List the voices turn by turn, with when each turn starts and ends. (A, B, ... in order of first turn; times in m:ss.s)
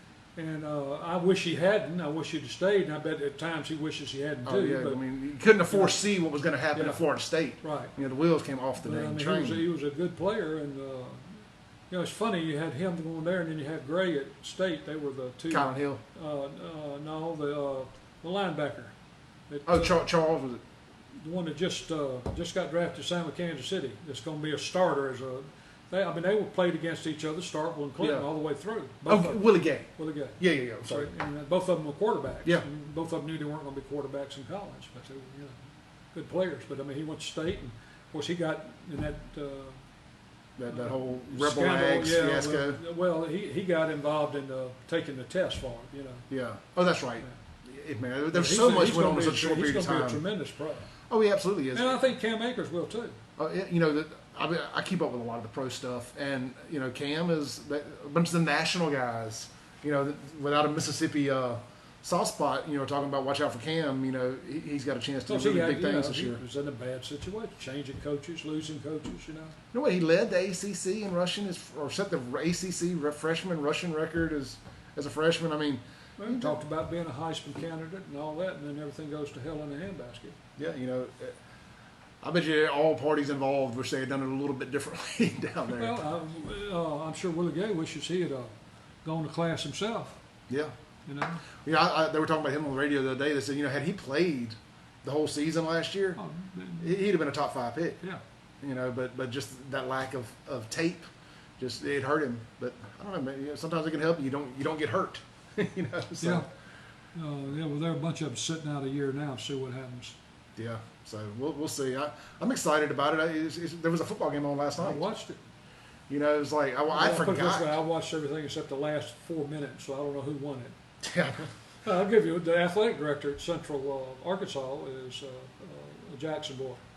0:00.4-0:05.0 A
0:04.4-0:09.6 B
0:05.7-0:06.0 A
0:06.7-0:07.0 A
0:07.6-0:07.9 A
0:08.8-0:18.9 A
0:15.5-0:16.0 B
0:19.5-0:20.0 A
0:19.6-0:20.6 B
0:21.2-0:35.6 A
0:28.0-0:28.3 B
0:29.0-0:31.1 B
0:36.1-0:39.8 A
0:40.6-0:42.8 B
0:40.7-0:46.3 A
0:46.3-0:50.2 B
0:48.3-0:50.9 A
0:51.1-0:52.0 B
0:51.7-0:53.2 A
0:53.4-1:06.4 B
1:05.3-1:09.5 A
1:09.7-1:16.6 B
1:16.2-1:20.4 A
1:20.6-1:21.4 B
1:22.2-1:25.9 B
1:25.8-1:28.5 A
1:29.0-1:30.2 A
1:31.1-1:31.4 A
1:31.6-1:36.2 B
1:36.2-1:36.9 A
1:36.8-1:38.0 B
1:38.6-1:41.1 B
1:41.6-1:46.4 B
1:46.2-1:46.5 A
1:47.1-1:50.2 A
1:50.6-1:55.0 B
1:54.8-1:55.4 A
1:56.1-1:57.8 B
1:56.9-2:00.8 A
2:01.0-2:01.5 B
2:01.8-2:06.8 A